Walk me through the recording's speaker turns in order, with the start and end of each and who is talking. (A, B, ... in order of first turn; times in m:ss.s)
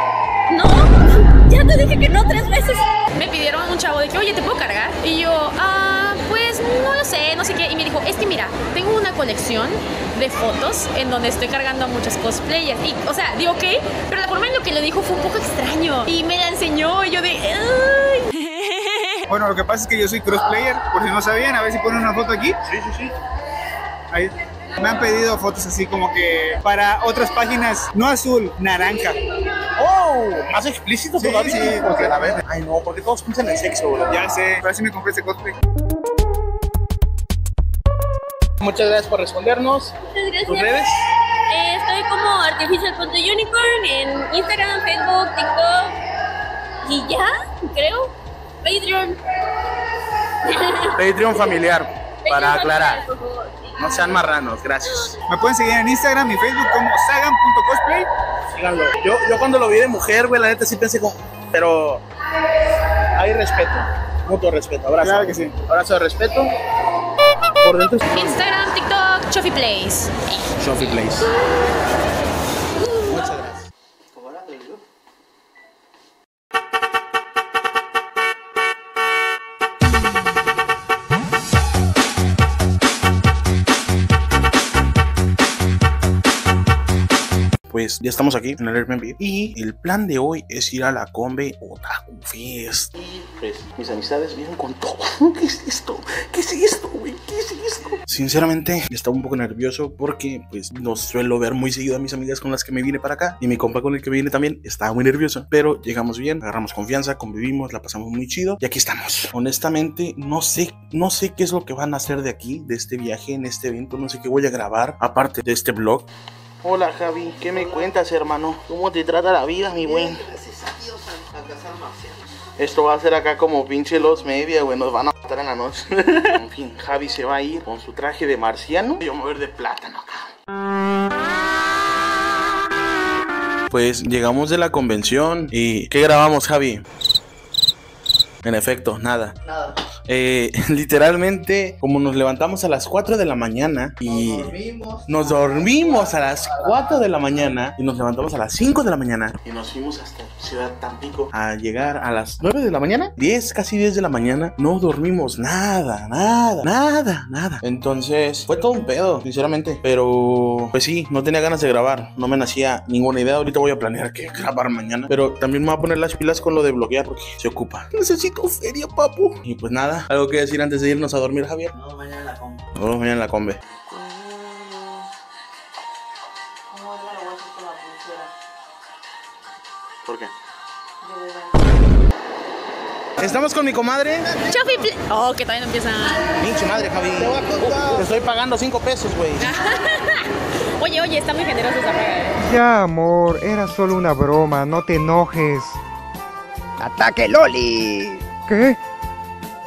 0:00.5-0:02.9 A
0:03.2-0:19.2 B
0:19.3-0:22.6 C
0:22.6-0:23.1 D
0:24.1-0:29.2 C
0:29.8-0:34.2 D
0:31.2-0:32.4 C
0:34.1-0:35.6 C
0:38.6-0:39.9 D
0:40.1-0:40.8 A
0:40.4-0:40.9 D
0:41.5-0:46.0 A
0:46.8-0:48.1 A
0:48.6-0:49.2 A
0:50.4-0:51.0 A
0:51.0-0:53.1 D
0:52.2-0:53.8 A
0:53.8-0:55.2 D
0:54.8-0:55.2 A
0:55.3-0:58.1 C
0:58.5-1:02.0 D
1:03.1-1:06.5 D
1:05.0-1:05.5 C
1:07.6-1:08.4 D
1:08.1-1:10.1 B
1:10.6-1:11.3 D
1:13.0-1:13.6 D
1:14.2-1:14.8 E
1:27.7-1:56.1 D
1:56.6-2:00.3 D
2:00.0-2:02.2 E
2:02.6-2:10.3 D
2:13.7-2:16.8 D
2:18.4-2:19.4 D
2:20.1-2:51.7 D
2:51.9-2:52.2 E
2:52.8-2:53.6 D
2:56.9-2:58.2 E
3:00.0-3:00.3 D
3:03.2-3:04.4 D
3:04.4-3:06.3 B
3:06.4-3:09.5 D
3:09.4-3:12.4 B
3:12.4-3:15.8 F
3:16.8-3:18.8 F